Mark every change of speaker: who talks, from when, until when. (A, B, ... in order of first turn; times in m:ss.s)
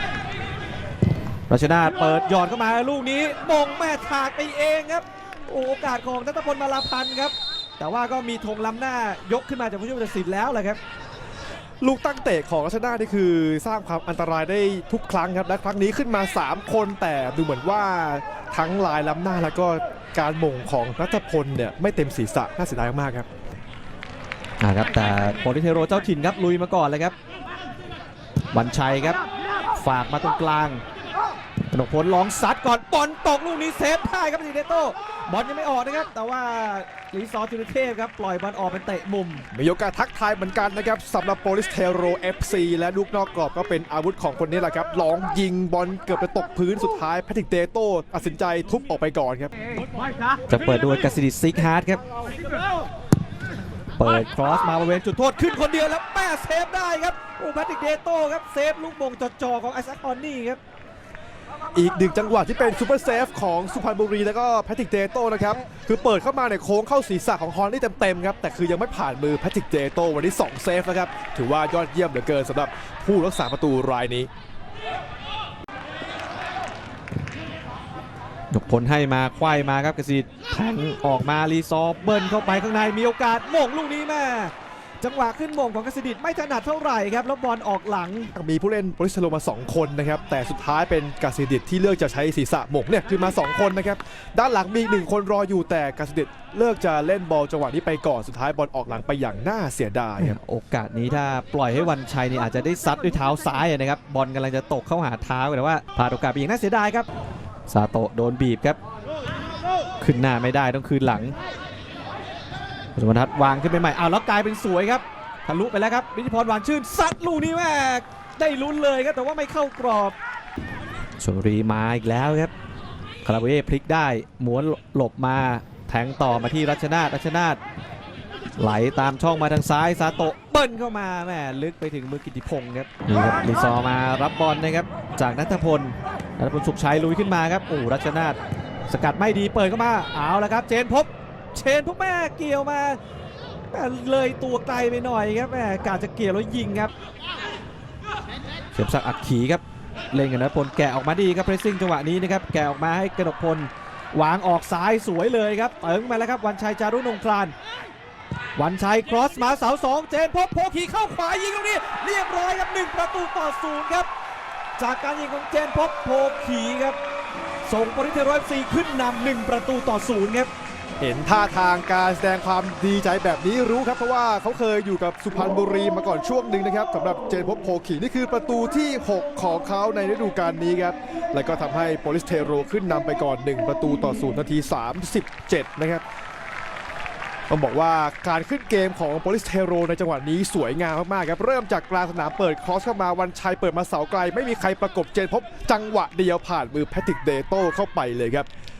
0:01.5-0:10.8 A
0:11.8-0:23.3 B
0:24.6-0:27.1 A
0:28.5-0:29.2 A
0:29.7-0:30.8 A
0:31.7-0:39.4 A
0:39.5-0:49.5 B
0:50.5-0:52.0 A
0:54.0-1:00.6 A
1:01.7-1:14.3 B
1:18.5-1:28.3 A
1:28.3-1:40.4 B
1:40.2-1:47.1 A
1:47.7-1:48.8 A
1:50.0-1:51.3 A
1:53.0-2:00.2 A
2:01.2-2:02.5 A
2:03.2-2:07.6 A
2:08.6-2:23.0 A
2:23.7-2:26.9 A
2:28.7-2:37.5 A
2:38.6-2:44.1 A
2:44.8-2:47.0 A
2:47.6-2:50.5 A
2:51.0-3:06.0 B
3:07.5-3:18.5 B